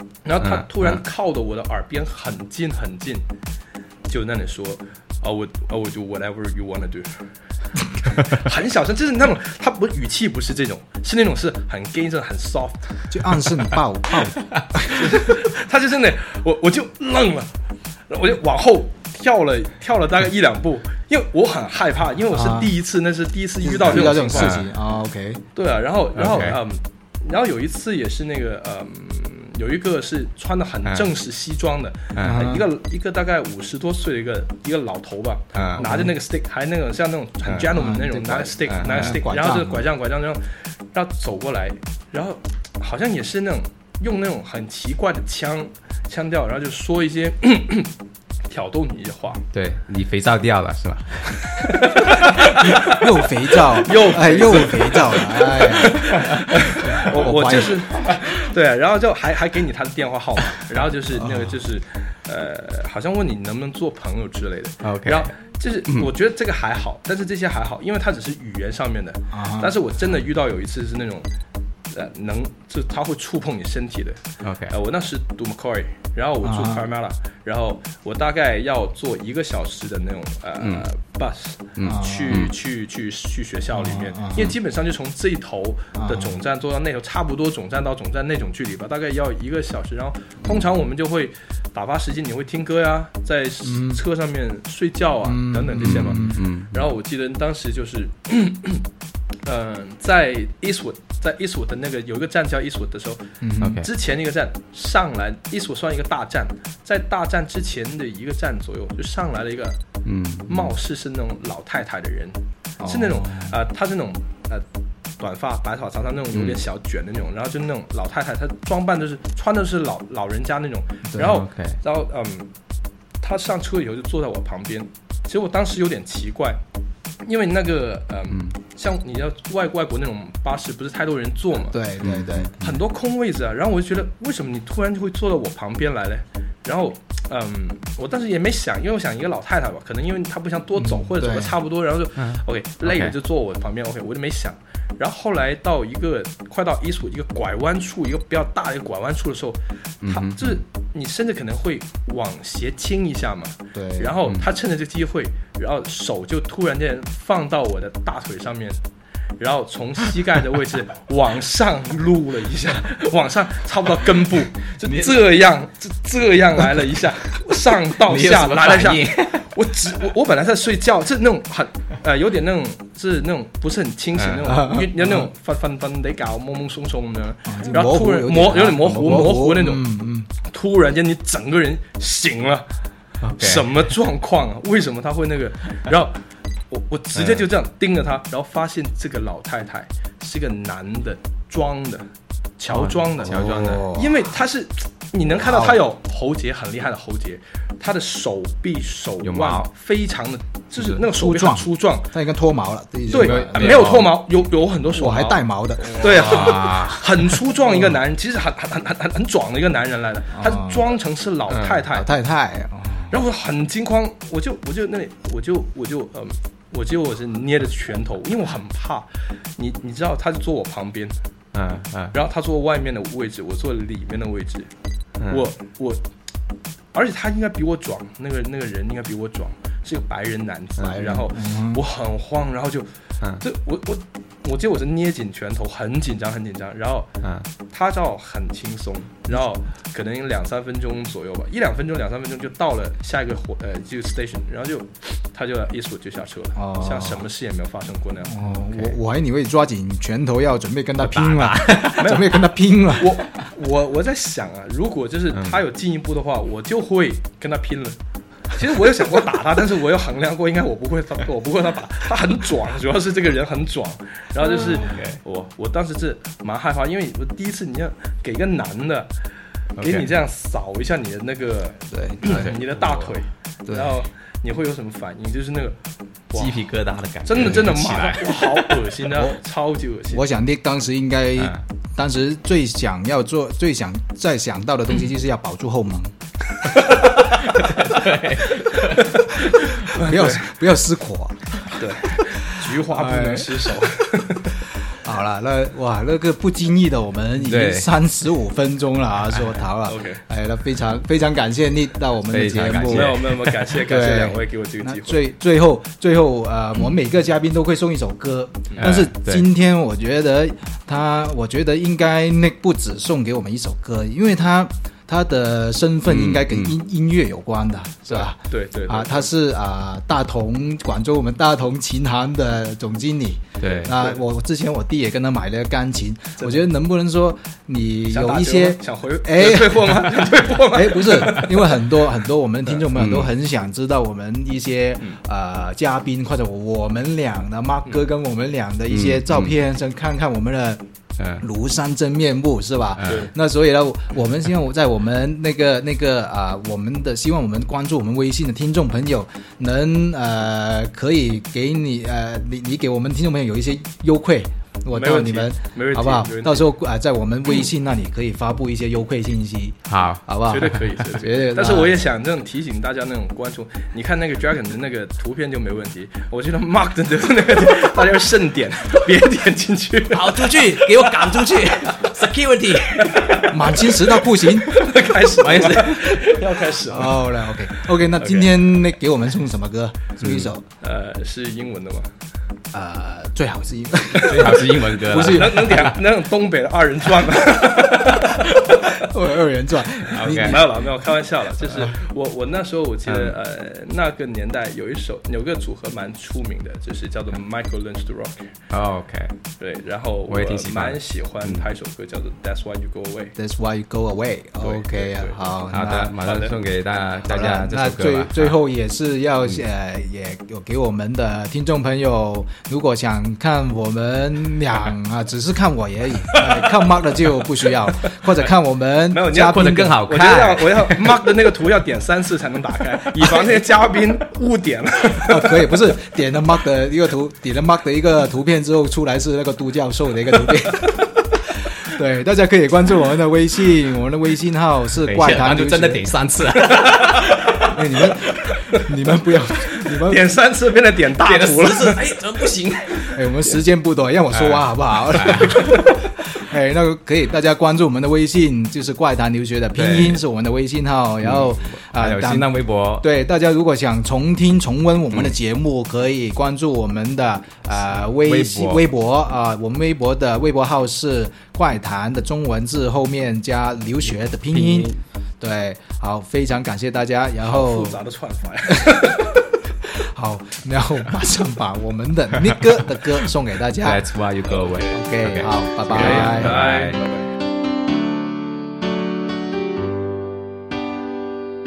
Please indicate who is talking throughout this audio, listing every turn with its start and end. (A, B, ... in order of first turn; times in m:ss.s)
0:00.2-0:03.2 A
0:00.4-0:01.0 B
0:04.1-0:07.2 A
0:08.0-0:12.9 A
0:13.1-0:15.1 C
0:14.9-0:17.5 A
0:18.1-0:24.5 A
0:22.3-0:22.7 C
0:23.6-0:25.4 C
0:23.9-0:24.7 B
0:25.5-0:47.9 A
0:26.1-0:26.6 B
0:32.1-0:32.4 B
0:32.2-0:32.6 C
0:35.5-0:35.9 B
0:35.8-0:36.1 C
0:37.4-0:37.7 B
0:37.7-0:39.8 C
0:38.7-0:39.2 B
0:48.5-0:49.4 A
0:49.5-0:52.7 B
0:51.6-0:53.0 A
0:52.6-0:56.1 C
0:53.8-1:11.3 A
0:56.8-0:57.8 C
1:01.2-1:01.6 C
1:04.8-1:05.3 B
1:09.3-1:09.7 C
1:11.9-1:38.8 A
1:14.4-1:14.7 B
1:16.4-1:16.8 C
1:21.8-1:22.5 B
1:21.8-1:22.4 C
1:23.8-1:24.5 C
1:26.0-1:26.3 C
1:33.6-1:34.0 C
1:35.2-1:36.4 C
1:35.8-1:36.8 B
1:39.4-1:43.2 A
1:43.4-1:43.8 C
1:43.6-1:43.9 B
1:43.8-1:49.8 A
1:50.0-1:50.7 B
1:50.5-1:54.6 A
1:52.8-1:53.5 C
1:55.2-2:02.5 A
1:56.3-1:56.6 B
2:01.2-2:01.8 B
2:03.2-2:06.6 A
2:07.2-2:11.8 A
2:11.7-2:12.5 C
2:12.0-2:12.7 B
2:12.6-2:38.8 A
2:20.8-2:21.5 C
2:22.2-2:23.1 B
2:30.0-2:30.6 B
2:33.7-2:34.2 C
2:39.4-3:02.7 A
2:44.8-2:45.1 B
2:48.0-2:49.5 B
2:54.2-2:54.4 B
2:54.5-2:55.0 C
2:57.4-3:00.3 C
3:03.2-3:03.7 B
3:03.3-3:06.2 A
3:06.7-3:22.1 A
3:07.1-3:07.4 B
3:12.7-3:13.9 B
3:13.2-3:14.2 C
3:15.4-3:15.8 C
3:19.2-3:19.6 B
3:21.0-3:24.0 C
3:23.1-3:32.1 A
3:23.1-3:24.2 B
3:24.9-3:26.5 C
3:25.9-3:27.4 B
3:30.3-3:30.9 C
3:31.5-3:31.8 B
3:31.9-3:33.1 C
3:33.1-3:41.1 A
3:41.5-3:42.1 B
3:42.1-3:44.7 A
3:45.3-3:46.0 A
3:46.9-3:52.9 A
3:50.8-3:51.3 B
3:51.1-3:51.8 C
3:53.4-3:57.1 A
3:57.2-3:57.5 B
3:57.7-4:08.4 A
4:06.6-4:07.2 C
4:08.3-4:13.1 C
4:11.0-4:12.2 B
4:12.0-4:12.3 A
4:12.9-4:18.0 A
4:15.3-4:15.6 B
4:18.5-4:29.1 A
4:24.6-4:24.9 C
4:24.7-4:25.2 B
4:29.8-4:30.1 B
4:29.8-4:35.8 A
4:31.9-4:32.5 C
4:32.2-4:33.1 B
4:33.6-4:34.0 C
4:36.3-4:36.6 A
4:36.3-4:38.9 B
4:37.2-4:40.2 A
4:39.1-4:39.4 C
4:40.1-4:46.1 C
4:46.9-4:50.1 B
4:49.9-4:51.6 C
4:51.7-4:54.6 A
4:52.9-4:53.5 C
4:54.9-5:40.8 C
4:57.4-4:57.9 B
4:59.8-5:00.2 A
5:02.3-5:03.5 B
5:02.9-5:05.2 A
5:08.8-5:09.4 B
5:16.1-5:16.7 B
5:18.1-5:19.3 A
5:23.6-5:24.1 B
5:26.4-5:26.6 A
5:28.1-5:31.8 A
5:32.8-5:33.3 B
5:38.9-5:39.5 B
5:41.2-5:41.4 B
5:41.4-6:01.9 C
5:43.0-5:43.3 B
5:43.0-5:43.3 A
5:54.9-5:56.7 A
5:59.9-6:00.8 B
6:00.4-6:11.3 A
6:10.1-6:13.4 B
6:13.0-6:13.9 A
6:13.5-6:14.8 C
6:14.6-6:18.6 A
6:15.4-6:16.4 B
6:16.9-6:20.6 C
6:20.2-6:20.5 B
6:20.8-6:22.1 A
6:22.7-6:25.9 C
6:24.1-6:24.6 A
6:24.2-6:25.9 B
6:25.1-6:28.8 A
6:29.0-6:30.8 C
6:30.1-6:30.7 B
6:30.4-6:38.5 A
6:33.1-6:33.4 B
6:38.7-6:39.3 B
6:39.6-6:43.3 A
6:40.3-6:41.7 B
6:43.4-6:46.2 C
6:44.6-6:46.6 A
6:45.7-6:48.5 B
6:47.2-7:00.0 C
6:59.1-7:05.7 A
6:59.3-7:01.2 B
7:05.2-7:16.1 C
7:15.0-7:18.0 B
7:17.7-7:20.3 C
7:20.0-7:22.2 A
7:21.2-7:23.4 B
7:23.1-7:25.8 C
7:24.3-7:25.8 B
7:25.5-7:25.8 A
7:26.3-7:48.0 C
7:29.7-7:30.2 B
7:31.2-7:33.1 B
7:38.2-7:38.8 B
7:44.5-7:45.0 B
7:47.4-7:49.4 A
7:48.7-7:49.2 C
7:49.8-7:54.0 C
7:53.8-7:57.0 B
7:54.5-7:55.0 A
7:54.9-7:56.6 C
7:55.9-7:57.3 A